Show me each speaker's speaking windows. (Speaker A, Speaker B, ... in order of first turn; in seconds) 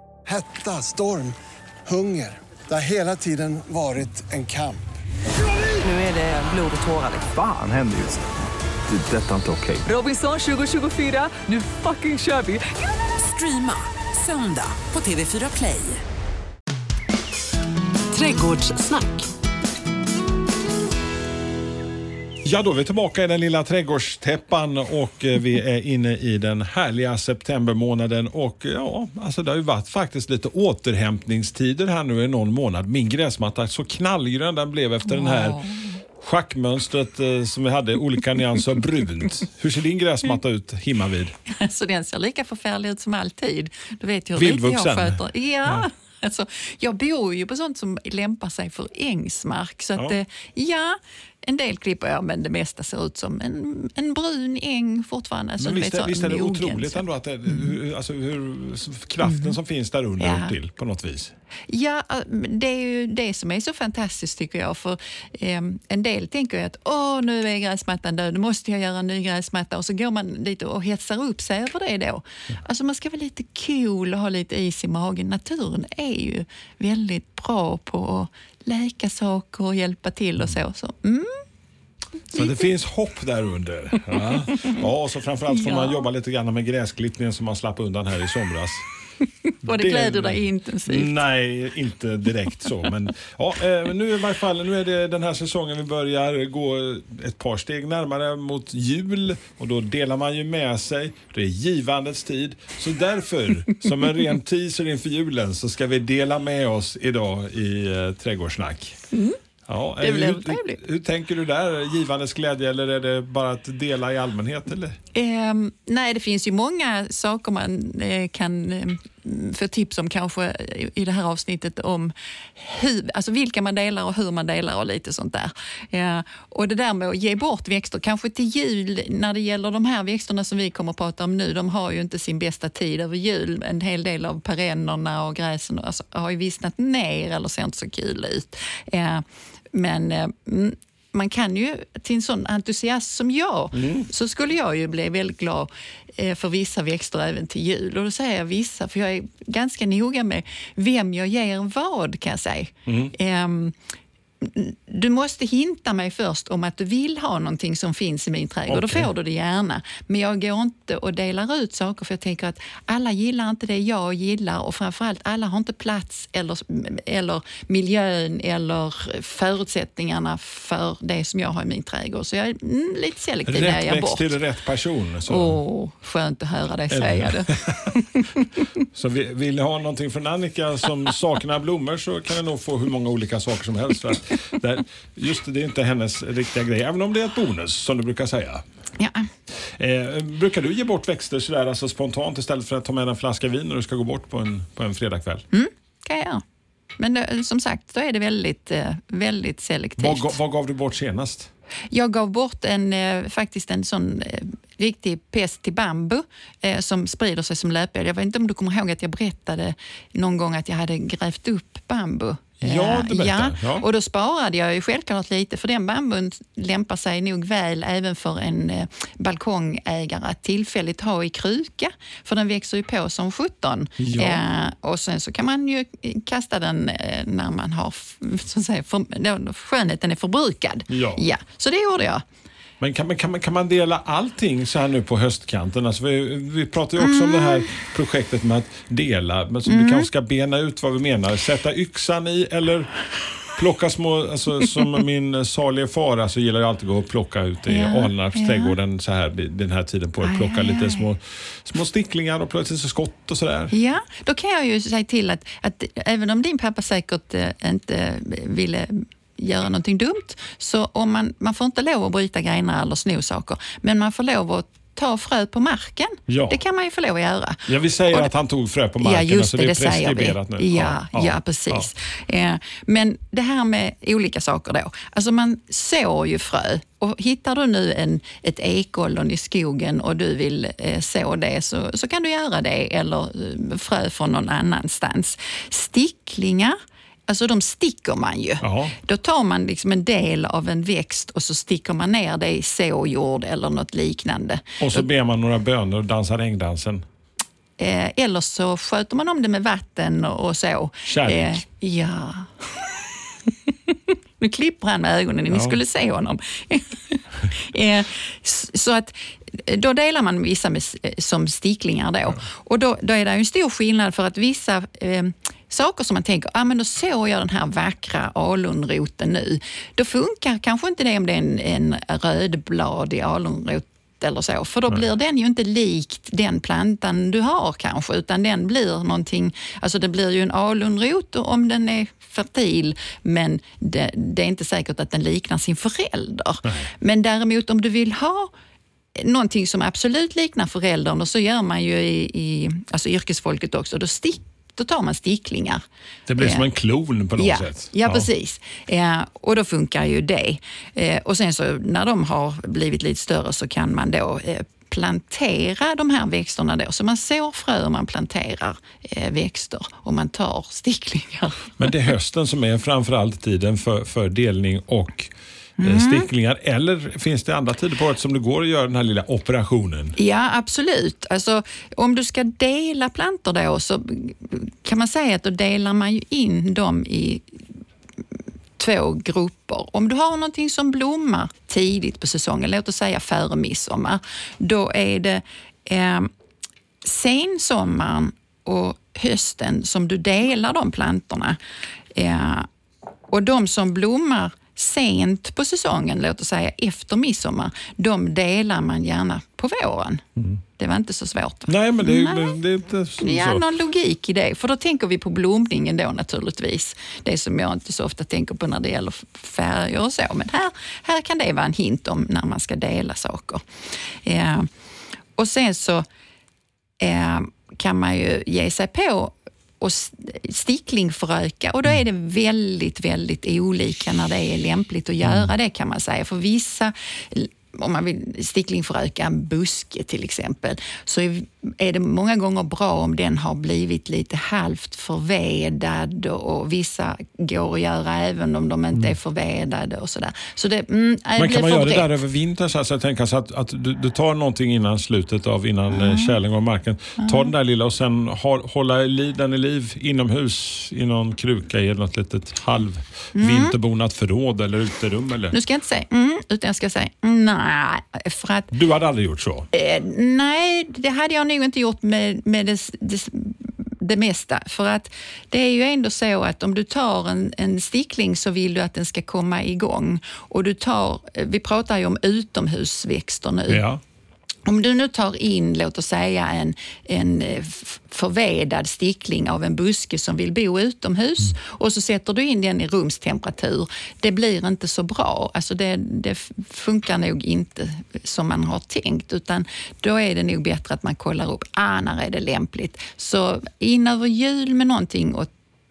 Speaker A: 0.2-1.3, 1.9-4.8
Speaker B: 5.8-7.3, 9.8-16.0, 18.1-19.2
Speaker C: 7.2-8.2, 8.9-9.9
Speaker D: 22.4-35.6, 36.2-41.3, 44.4-45.9, 55.6-61.3, 82.3-88.8, 89.6-109.0, 109.7-115.0, 143.7-144.1, 152.8-153.1, 158.7-159.1, 173.4-175.6, 176.9-177.9, 178.9-188.6, 189.6-195.4, 200.0-201.5, 212.6-213.8, 224.0-224.4, 230.9-231.2, 232.8-242.9, 243.5-253.7, 266.3-266.6, 267.7-271.9, 288.6-288.9, 294.8-297.0, 301.1-301.6, 305.5-305.8, 336.6-336.9, 346.3-348.3, 361.8-370.1, 401.7-403.6, 425.2-425.5, 441.4-455.6, 458.7-459.7, 473.7-474.0
Speaker E: 35.0-36.0, 41.5-57.8, 59.2-59.5, 60.2-60.5, 61.7-81.4, 84.5-84.8, 85.5-86.0, 89.5-91.2, 109.1-109.4, 110.0-110.8, 115.1-153.7, 154.4-174.4, 175.3-178.6, 189.0-189.3, 195.5-196.4, 197.0-200.3, 201.9-232.2, 237.0-237.7, 239.7-240.1, 247.7-248.7, 250.2-251.1, 253.7-268.3, 269.0-286.8, 287.3-295.1, 297.8-302.9, 303.7-338.5, 339.1-345.8, 346.4-346.6, 347.4-361.9, 365.8-366.3, 370.2-377.4, 378.8-386.3, 387.0-391.6, 392.1-392.7, 393.3-400.2, 400.8-402.6, 403.2-413.6, 414.2-414.7, 415.4-416.0, 417.0-442.1, 445.9-446.3, 447.2-447.5, 453.4-453.7, 455.5-458.7, 459.7-473.8, 474.6-495.5